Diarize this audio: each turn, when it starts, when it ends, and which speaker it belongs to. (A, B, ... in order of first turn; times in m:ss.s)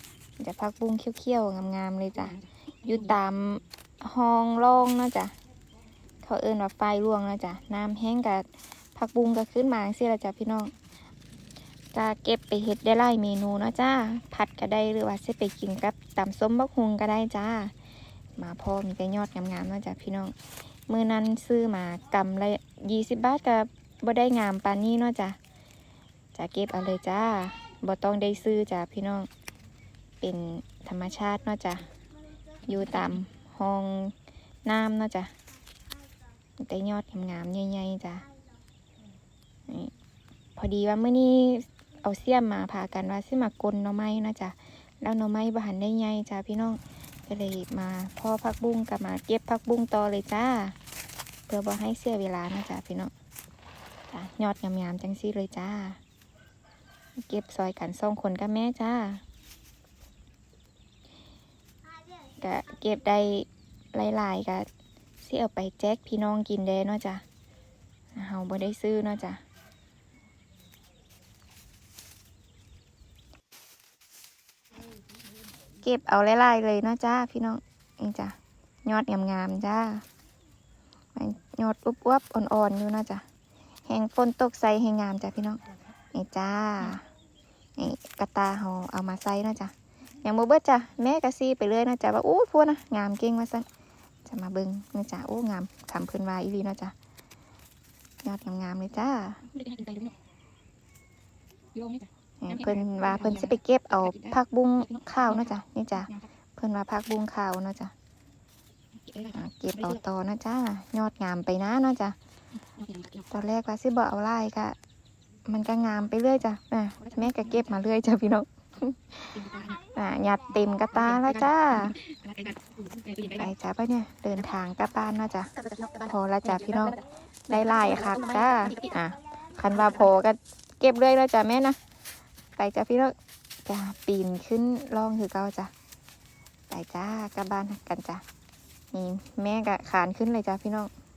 0:00.4-0:05.3 A
0:06.2-0:10.7 A
0:11.9-0:17.7 A
0:18.4-0:20.4 A
0:20.9-0:25.4 A
0:26.3-0:29.3 A
0:30.2-0:31.9 A
0:32.6-0:35.3 A
0:36.6-0:38.3 A
0:39.7-0:39.9 A
0:40.6-0:50.8 A
0:51.5-0:53.1 A
0:54.1-0:56.0 A
0:57.2-0:59.2 A
1:02.4-1:04.7 A
1:05.2-1:07.2 A
1:08.2-1:09.4 A
1:15.8-1:20.0 A
1:21.2-1:23.2 A
1:23.9-1:25.6 A
1:26.1-1:27.0 A
1:27.8-1:29.7 A
1:30.2-1:33.7 A
1:34.2-1:36.9 A
1:38.2-1:39.4 A
1:39.6-1:40.1 B
1:41.8-1:42.1 B
1:42.4-1:47.9 A
1:42.7-1:43.3 B
1:49.0-1:49.3 B
1:49.3-1:52.2 A
1:52.8-1:53.2 B
1:53.3-1:54.8 A
1:55.5-2:02.0 A
1:59.4-1:59.8 B
2:02.0-2:03.4 B
2:03.3-2:05.5 A
2:05.6-2:06.1 B
2:06.0-2:11.8 A
2:07.7-2:08.9 B
2:12.6-2:13.2 A
2:13.7-2:15.7 A
2:16.7-2:18.2 A
2:18.9-2:20.9 A